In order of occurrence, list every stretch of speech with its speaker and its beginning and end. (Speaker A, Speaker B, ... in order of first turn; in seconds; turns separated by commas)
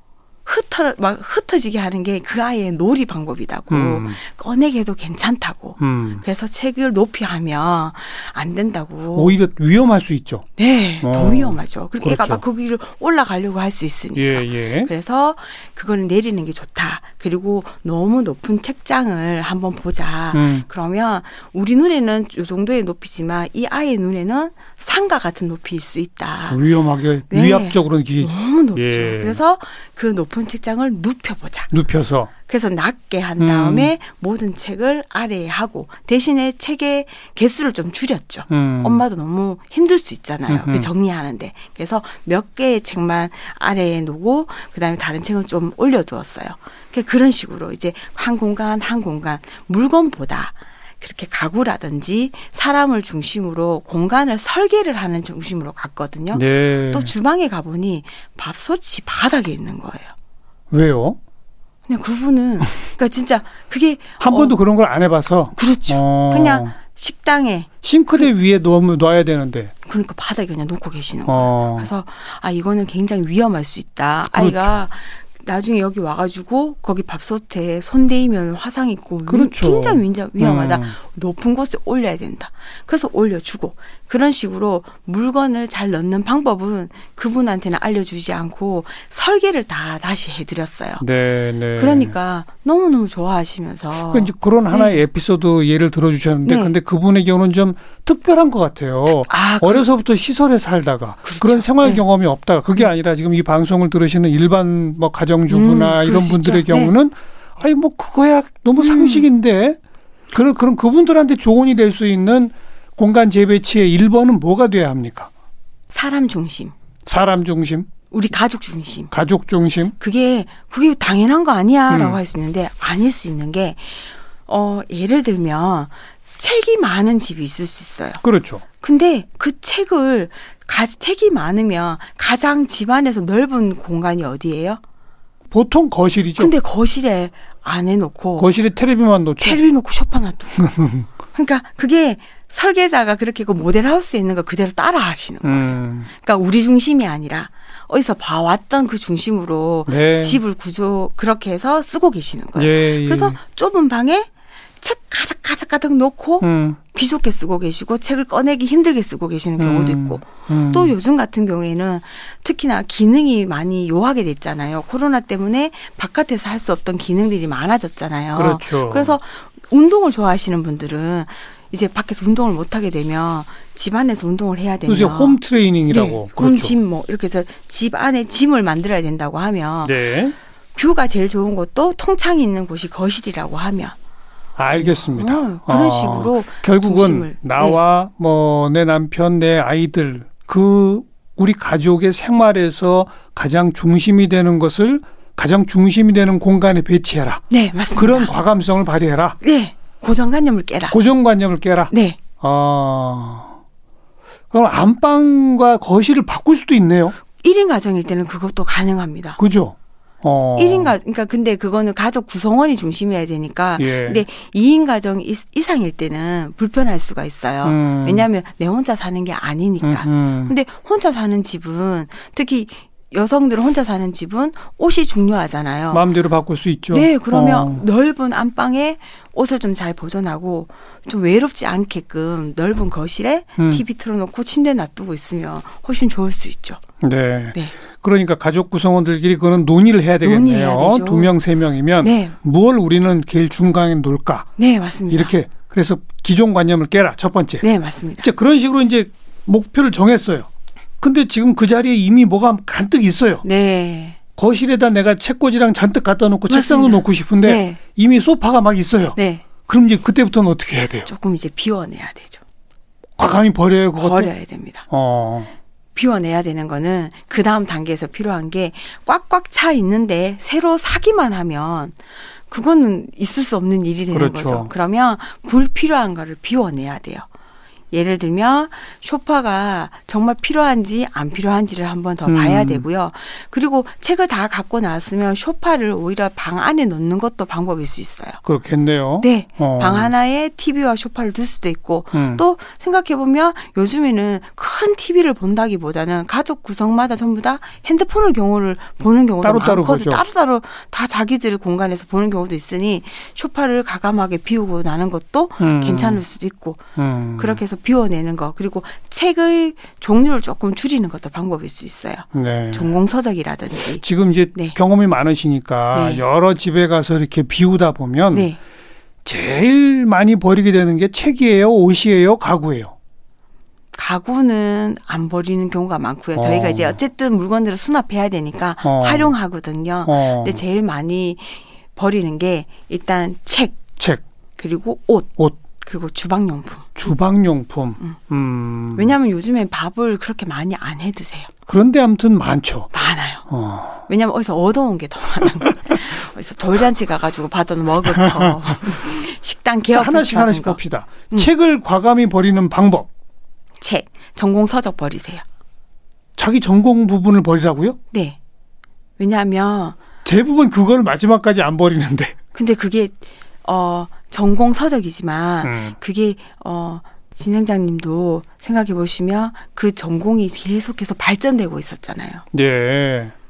Speaker A: 0.5-9.4, Speaker B: 3.7-4.2, Speaker B: 5.8-6.2, Speaker B: 9.1-10.5, Speaker A: 10.6-26.6, Speaker B: 11.0-12.4, Speaker B: 14.1-14.9, Speaker B: 20.3-20.6, Speaker B: 26.5-29.4, Speaker A: 27.3-31.7, Speaker B: 31.7-32.3, Speaker A: 32.4-60.1, Speaker B: 33.4-33.9, Speaker B: 38.5-39.0, Speaker B: 40.5-40.9, Speaker B: 56.3-57.1, Speaker B: 60.7-61.2, Speaker A: 61.9-64.5, Speaker B: 64.2-66.8, Speaker A: 65.5-68.2, Speaker B: 67.8-69.7, Speaker A: 69.8-91.0, Speaker B: 71.2-71.9, Speaker B: 74.3-74.8, Speaker B: 79.3-81.0, Speaker B: 91.0-92.1, Speaker A: 91.8-95.0, Speaker B: 94.1-109.8, Speaker A: 96.4-96.7, Speaker A: 99.3-99.8, Speaker A: 101.2-102.0, Speaker A: 105.5-106.9, Speaker A: 108.8-109.3, Speaker B: 110.3-115.3, Speaker A: 115.9-116.7, Speaker B: 117.0-117.9, Speaker A: 118.1-119.1, Speaker B: 119.1-119.9, Speaker A: 120.0-128.2, Speaker B: 121.9-122.2, Speaker B: 128.2-128.6, Speaker A: 128.8-134.8, Speaker B: 135.5-136.5, Speaker A: 136.4-138.5, Speaker B: 138.4-139.6, Speaker A: 139.4-140.6, Speaker B: 140.6-141.1, Speaker A: 141.3-154.3, Speaker B: 145.4-146.1, Speaker B: 149.9-150.4, Speaker B: 152.6-153.4, Speaker A: 154.8-175.4, Speaker B: 156.4-156.8, Speaker B: 159.6-160.9, Speaker B: 168.3-169.2, Speaker B: 174.8-176.7, Speaker A: 175.9-180.0, Speaker B: 179.8-180.3, Speaker A: 180.7-183.9, Speaker B: 184.6-199.4, Speaker A: 184.8-187.8, Speaker A: 197.5-198.3, Speaker A: 199.4-201.0, Speaker B: 200.9-203.5, Speaker A: 201.9-202.2, Speaker B: 204.5-207.2, Speaker A: 207.4-209.4, Speaker B: 209.4-210.9, Speaker A: 210.6-226.0, Speaker B: 213.8-214.2, Speaker B: 217.6-218.2, Speaker B: 219.8-220.5, Speaker B: 225.9-227.8, Speaker A: 226.9-236.8, Speaker B: 233.6-233.8, Speaker B: 237.0-244.5, Speaker A: 240.2-241.3, Speaker A: 242.0-242.4, Speaker A: 244.6-245.3, Speaker B: 245.1-247.6, Speaker A: 247.6-248.3, Speaker B: 248.2-250.5, Speaker B: 251.0-253.4, Speaker A: 253.4-254.2, Speaker B: 254.4-261.1, Speaker A: 256.5-257.8, Speaker A: 259.1-259.4, Speaker A: 261.1-262.4, Speaker B: 263.2-264.3, Speaker A: 264.0-264.8, Speaker B: 264.9-265.5, Speaker A: 265.9-271.9, Speaker A: 272.5-277.2, Speaker B: 274.1-274.7, Speaker A: 277.9-288.4, Speaker B: 282.2-282.8, Speaker B: 288.4-290.1, Speaker A: 289.2-306.8, Speaker B: 292.1-292.4, Speaker B: 299.4-300.2, Speaker B: 305.6-306.2, Speaker B: 306.9-307.6, Speaker A: 307.4-314.0, Speaker B: 312.3-312.9, Speaker B: 314.0-318.5, Speaker A: 315.9-316.2, Speaker A: 318.3-318.6, Speaker B: 319.2-322.9, Speaker A: 323.9-333.8, Speaker B: 326.4-326.9, Speaker B: 328.8-329.3, Speaker B: 330.1-330.6, Speaker A: 334.6-336.9, Speaker B: 336.9-339.1, Speaker A: 338.9-341.5, Speaker B: 341.7-342.9, Speaker A: 342.9-343.5, Speaker B: 343.5-344.0, Speaker A: 344.1-351.5, Speaker B: 348.2-348.5, Speaker B: 349.9-353.1, Speaker A: 353.8-355.4, Speaker B: 356.4-358.0, Speaker A: 358.1-358.4, Speaker A: 359.2-360.0, Speaker B: 360.2-362.3, Speaker A: 362.5-372.4, Speaker B: 365.6-365.9, Speaker B: 372.5-373.3